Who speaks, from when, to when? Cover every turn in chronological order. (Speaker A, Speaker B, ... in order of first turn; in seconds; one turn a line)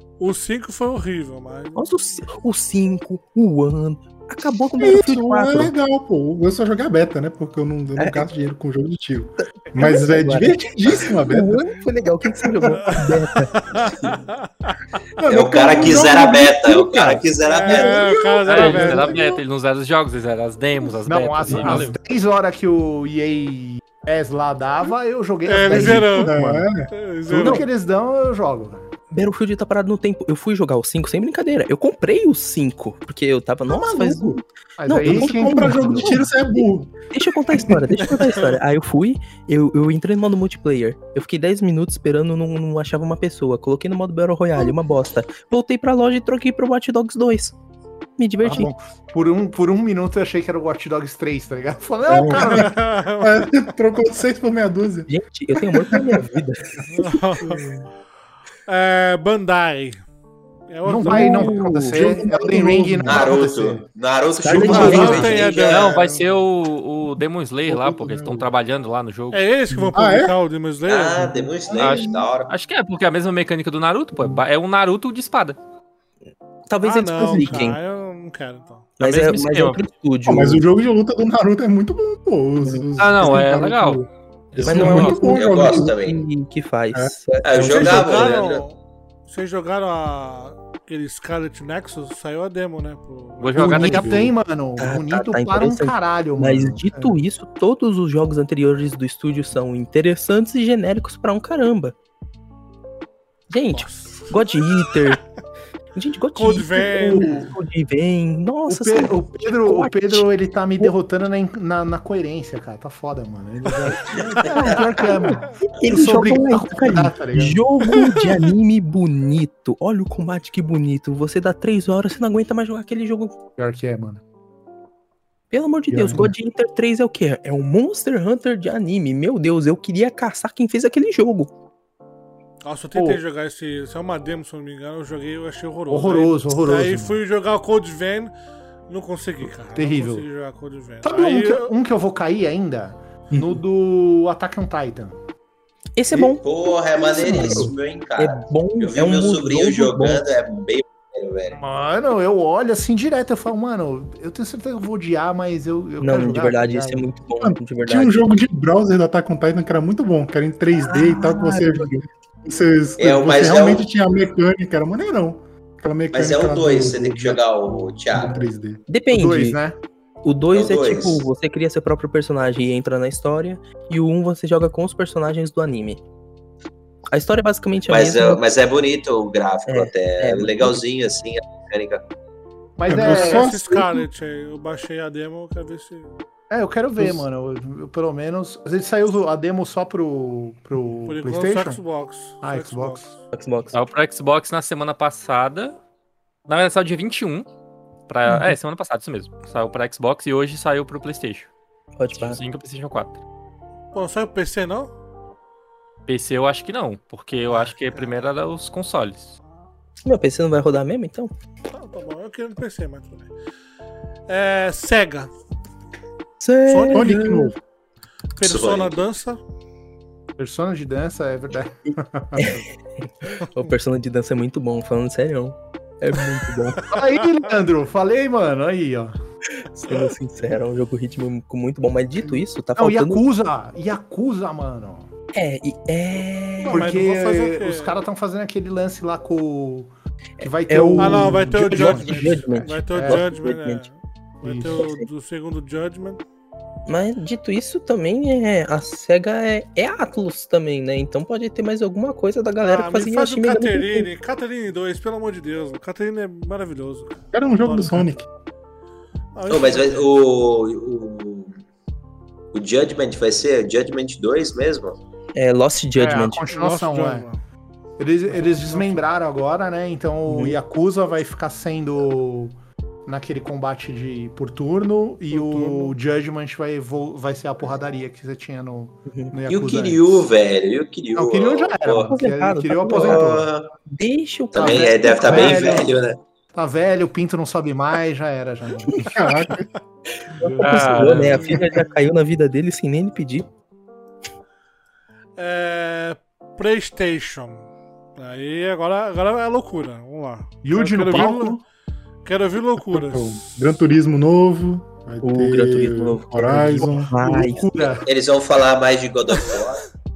Speaker A: 0.2-2.4
Speaker B: 1.8-5.7
Speaker C: 4.8-11.6
Speaker B: 8.0-8.2
Speaker B: 9.4-14.1
Speaker C: 12.6-12.8
Speaker A: 12.9-14.7
Speaker C: 15.2-16.6
Speaker D: 15.3-18.2
Speaker E: 16.2-17.7
Speaker A: 17.4-19.2
Speaker C: 17.7-19.4
Speaker F: 18.4-21.9
Speaker E: 21.0-26.7
Speaker C: 21.5-21.9
Speaker A: 21.6-21.9
Speaker A: 25.4-26.4
Speaker C: 25.6-27.6
Speaker A: 26.9-27.6
Speaker E: 27.3-28.9
Speaker B: 29.1-47.5
Speaker C: 33.7-34.4
Speaker E: 34.8-36.2
Speaker C: 35.0-37.8
Speaker A: 38.0-38.6
Speaker B: 48.2-48.7
Speaker E: 48.4-52.8
Speaker C: 52.1-56.9
Speaker A: 52.2-53.7
Speaker B: 55.1-57.2
Speaker A: 56.9-57.6
Speaker C: 57.4-57.9
Speaker A: 58.7-60.0
Speaker A: 60.7-61.6
Speaker E: 60.8-63.8
Speaker B: 61.0-62.0
Speaker C: 61.0-63.8
Speaker D: 63.0-66.0
Speaker B: 64.4-65.6
Speaker C: 64.5-66.3
Speaker E: 64.5-65.0
Speaker A: 64.6-66.2
Speaker F: 65.6-69.4
Speaker C: 67.7-68.5
Speaker A: 69.3-71.3
Speaker C: 69.9-70.3
Speaker D: 70.9-72.5
Speaker E: 71.7-72.0
Speaker F: 71.8-75.6
Speaker B: 74.2-74.4
Speaker B: 76.7-77.8
Speaker A: 76.8-79.0
Speaker C: 77.2-77.7
Speaker B: 79.0-80.7
Speaker F: 79.0-79.8
Speaker C: 80.2-85.9
Speaker B: 82.6-82.9
Speaker F: 83.0-84.0
Speaker B: 84.6-88.3
Speaker F: 84.7-85.2
Speaker D: 85.1-86.2
Speaker D: 87.4-88.6
Speaker A: 87.7-94.1
Speaker F: 93.4-94.2
Speaker E: 93.5-97.1
Speaker B: 94.8-102.0
Speaker B: 103.5-105.2
Speaker A: 103.7-105.0
Speaker B: 105.9-110.2
Speaker A: 106.3-107.5
Speaker E: 106.9-107.5
Speaker E: 108.7-118.2
Speaker D: 114.2-114.9
Speaker A: 114.2-114.5
Speaker B: 115.8-123.4
Speaker E: 123.6-124.2
Speaker B: 125.5-131.5
Speaker E: 125.9-126.3
Speaker C: 125.9-126.2
Speaker A: 132.6-138.3
Speaker E: 132.9-133.2
Speaker E: 135.9-137.2
Speaker A: 138.9-141.7
Speaker E: 139.7-140.3
Speaker E: 141.0-145.2
Speaker B: 143.3-143.6
Speaker B: 145.9-146.4
Speaker D: 146.1-151.6
Speaker B: 147.0-150.2
Speaker C: 147.1-147.7
Speaker E: 151.5-157.1
Speaker B: 156.0-158.4
Speaker C: 157.4-168.8
Speaker B: 160.7-161.9
Speaker D: 163.0-163.8
Speaker D: 166.1-168.4
Speaker B: 168.9-169.6
Speaker E: 169.1-169.8
Speaker B: 170.2-176.0
Speaker D: 170.5-171.3
Speaker B: 177.1-178.4
Speaker D: 177.9-182.0
Speaker B: 179.7-180.7
Speaker E: 182.8-183.5
Speaker C: 182.9-184.1
Speaker A: 182.9-186.1
Speaker E: 186.5-191.8
Speaker A: 191.1-193.2
Speaker E: 192.4-193.1
Speaker B: 193.3-193.8
Speaker F: 193.7-195.8
Speaker F: 196.5-197.4
Speaker F: 198.1-201.5
Speaker E: 198.3-198.5
Speaker B: 202.0-202.4
Speaker F: 202.1-203.2
Speaker A: 203.9-204.9
Speaker F: 206.1-209.4
Speaker A: 207.6-208.3
Speaker B: 210.0-211.3
Speaker A: 211.7-213.3
Speaker A: 214.3-215.3
Speaker B: 216.4-217.5
Speaker A: 216.7-217.2
Speaker C: 216.9-217.6
Speaker A: 218.3-219.4
Speaker D: 218.4-219.0
Speaker E: 220.4-222.6
Speaker B: 222.3-226.9
Speaker A: 226.8-227.4
Speaker E: 226.8-229.1
Speaker B: 229.8-233.2
Speaker E: 232.8-235.1
Speaker B: 235.3-237.0
Speaker A: 236.6-237.9
Speaker E: 236.7-243.3
Speaker B: 240.4-243.8
Speaker A: 241.0-246.2
Speaker E: 244.4-244.9
Speaker B: 244.7-245.1
Speaker B: 246.9-254.1
Speaker A: 252.6-258.1
Speaker C: 257.3-258.3
Speaker A: 259.4-260.0
Speaker D: 259.5-261.6
Speaker D: 262.5-265.0
Speaker B: 265.3-266.4
Speaker E: 266.0-267.2
Speaker A: 266.5-267.4
Speaker E: 268.0-272.5
Speaker A: 268.3-269.0
Speaker B: 270.3-270.6
Speaker E: 273.1-280.2
Speaker A: 275.3-275.9
Speaker B: 279.1-279.3
Speaker D: 279.5-282.1
Speaker E: 281.1-283.5
Speaker B: 282.1-285.8
Speaker D: 283.0-283.7
Speaker D: 284.5-286.2
Speaker E: 284.5-286.0
Speaker E: 286.5-289.1
Speaker C: 288.9-289.7
Speaker B: 290.3-293.5
Speaker E: 290.4-291.1
Speaker F: 290.6-291.6
Speaker C: 290.8-291.2
Speaker A: 295.4-301.6
Speaker E: 300.6-301.6
Speaker A: 302.2-303.8
Speaker C: 302.8-307.1
Speaker B: 305.2-307.7
Speaker E: 306.8-308.1
Speaker D: 308.0-309.9